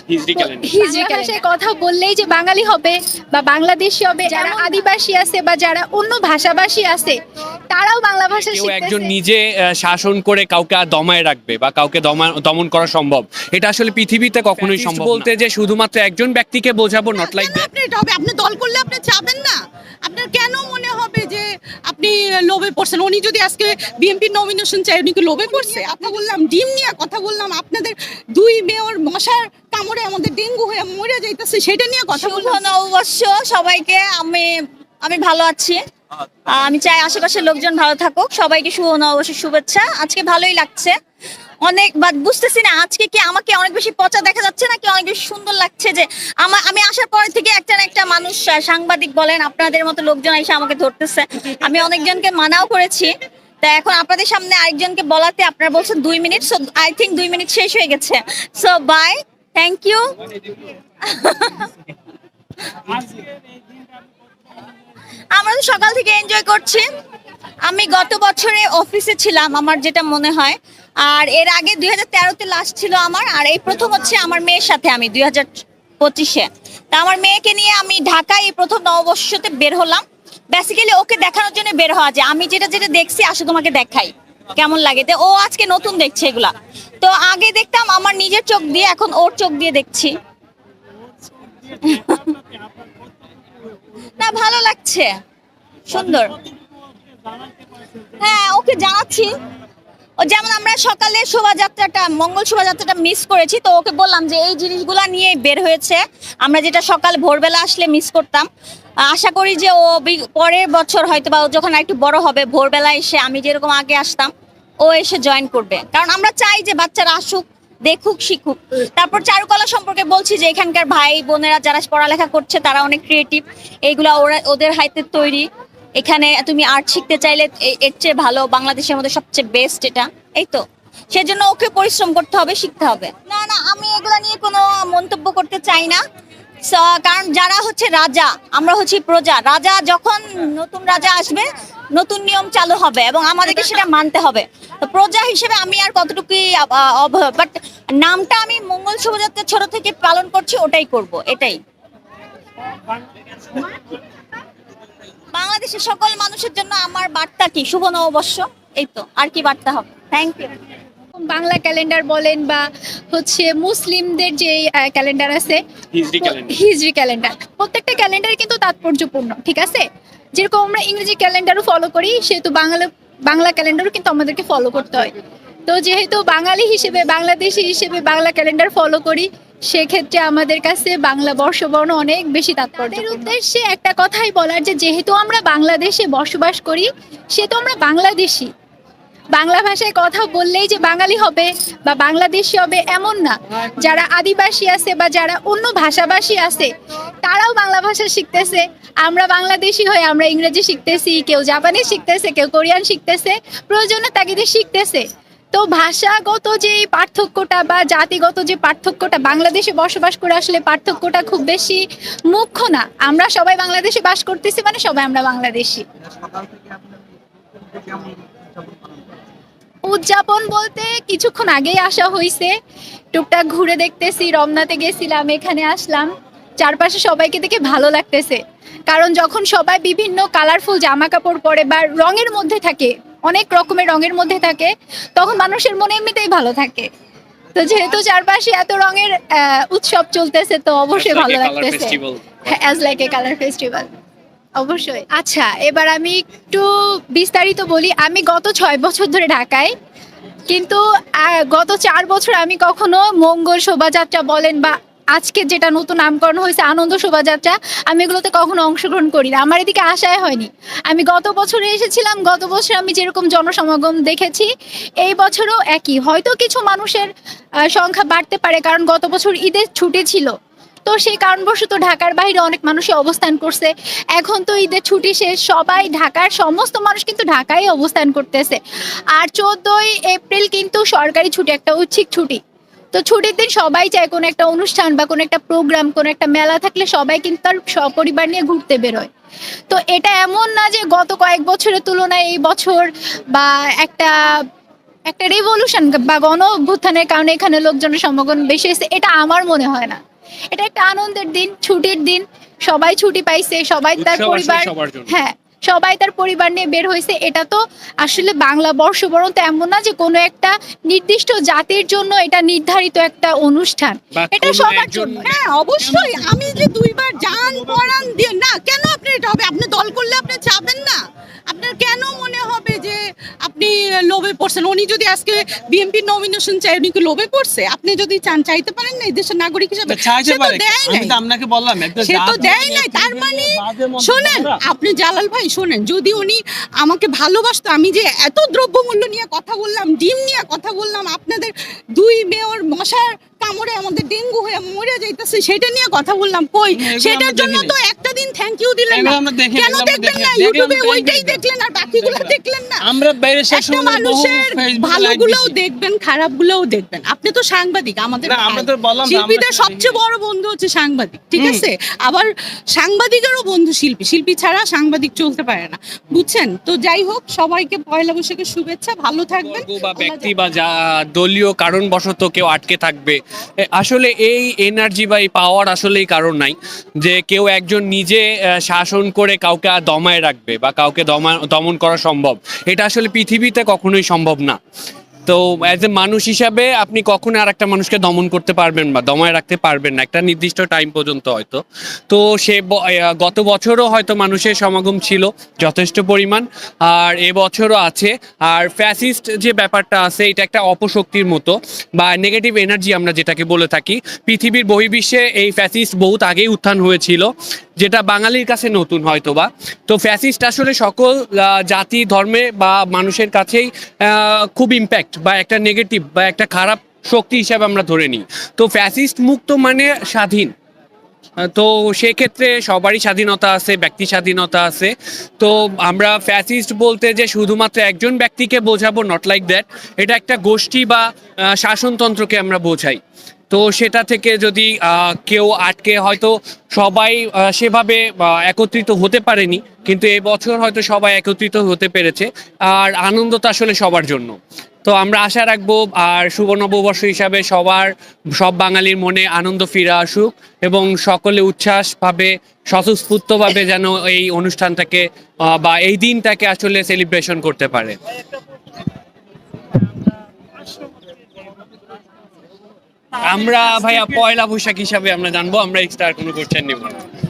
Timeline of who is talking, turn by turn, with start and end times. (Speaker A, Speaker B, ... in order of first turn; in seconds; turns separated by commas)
Speaker A: 0.1-0.7, Speaker B: 0.4-7.2, Speaker C: 0.8-1.4, Speaker C: 4.3-4.8, Speaker B: 7.7-9.1, Speaker A: 8.5-17.7, Speaker D: 17.2-32.7, Speaker C: 25.4-25.9, Speaker C: 32.1-34.5, Speaker C: 35.0-35.8, Speaker C: 36.5-40.9, Speaker C: 41.6-53.1, Speaker C: 53.6-60.0, Speaker C: 61.0-61.7, Speaker C: 65.3-66.8, Speaker C: 67.7-90.2, Speaker C: 91.8-92.4, Speaker C: 94.2-95.1, Speaker C: 95.9-96.3, Speaker C: 98.2-99.3, Speaker C: 100.2-108.5, Speaker C: 109.1-125.5, Speaker C: 126.0-136.0, Speaker C: 136.7-151.6, Speaker C: 155.3-160.5, Speaker B: 161.2-165.6, Speaker A: 165.9-166.6, Speaker B: 166.2-175.1, Speaker B: 175.7-188.5, Speaker B: 189.3-196.7, Speaker B: 197.2-215.8, Speaker B: 219.8-222.5, Speaker B: 223.1-236.9, Speaker B: 237.6-243.9, Speaker A: 240.9-242.4, Speaker B: 244.6-249.7, Speaker B: 250.5-264.5, Speaker B: 265.0-267.1, Speaker B: 267.7-270.3, Speaker B: 270.9-278.6, Speaker B: 279.1-282.4, Speaker B: 282.9-289.1, Speaker B: 289.7-294.1, Speaker B: 295.1-300.0, Speaker B: 300.5-315.3, Speaker A: 304.0-305.1, Speaker A: 314.1-315.4, Speaker D: 315.2-331.2, Speaker E: 329.9-334.6, Speaker D: 332.0-352.9, Speaker E: 346.8-347.8, Speaker E: 348.9-355.6, Speaker D: 353.5-370.3, Speaker E: 358.2-360.0, Speaker E: 361.4-361.7, Speaker A: 369.4-373.2, Speaker A: 373.8-384.6, Speaker A: 385.3-420.5, Speaker A: 421.5-457.9, Speaker A: 463.2-467.0